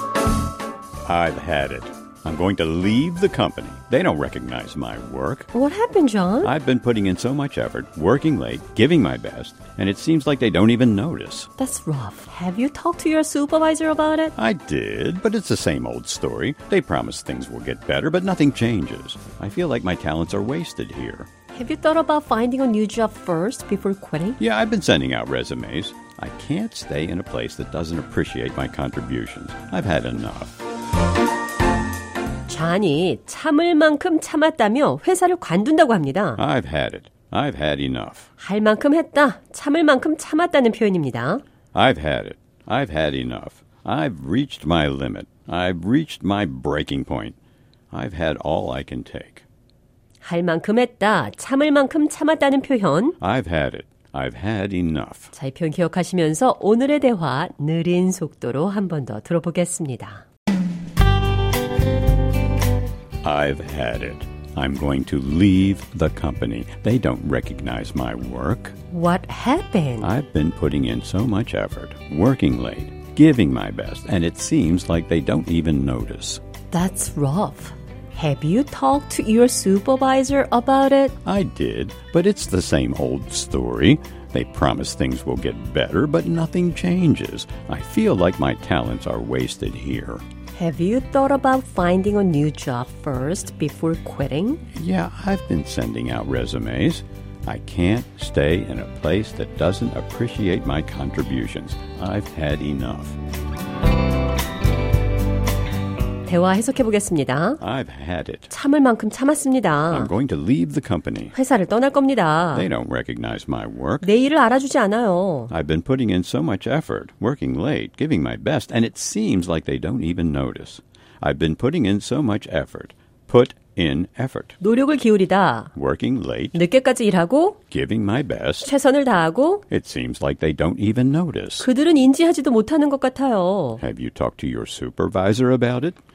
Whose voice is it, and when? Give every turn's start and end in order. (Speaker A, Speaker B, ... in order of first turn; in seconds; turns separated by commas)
Speaker A: 1.0-5.5, Speaker B: 5.5-6.5, Speaker A: 6.4-11.5, Speaker B: 11.6-14.3, Speaker A: 14.3-21.3, Speaker B: 21.5-24.4, Speaker A: 24.4-30.5, Speaker B: 32.5-36.4, Speaker A: 36.4-38.3, Speaker B: 38.4-41.4, Speaker A: 41.7-47.4, Speaker A: 47.9-49.4, Speaker B: 50.2-53.2, Speaker A: 53.2-55.3, Speaker B: 55.3-60.2, Speaker A: 63.2-68.7, Speaker B: 68.9-70.1, Speaker A: 70.0-76.4, Speaker B: 76.7-81.2, Speaker A: 81.2-90.2, Speaker B: 90.5-94.6, Speaker A: 94.7-103.2, Speaker B: 106.2-107.6, Speaker A: 107.6-108.5, Speaker B: 108.5-110.1, Speaker A: 109.9-111.3, Speaker B: 111.3-112.7, Speaker A: 112.5-114.1, Speaker B: 114.0-115.5, Speaker A: 115.5-124.6, Speaker B: 124.6-125.7, Speaker A: 125.7-126.6, Speaker B: 126.5-127.6, Speaker A: 127.7-128.7, Speaker B: 128.6-129.6, Speaker A: 129.7-131.7, Speaker B: 131.6-133.8, Speaker A: 133.8-136.0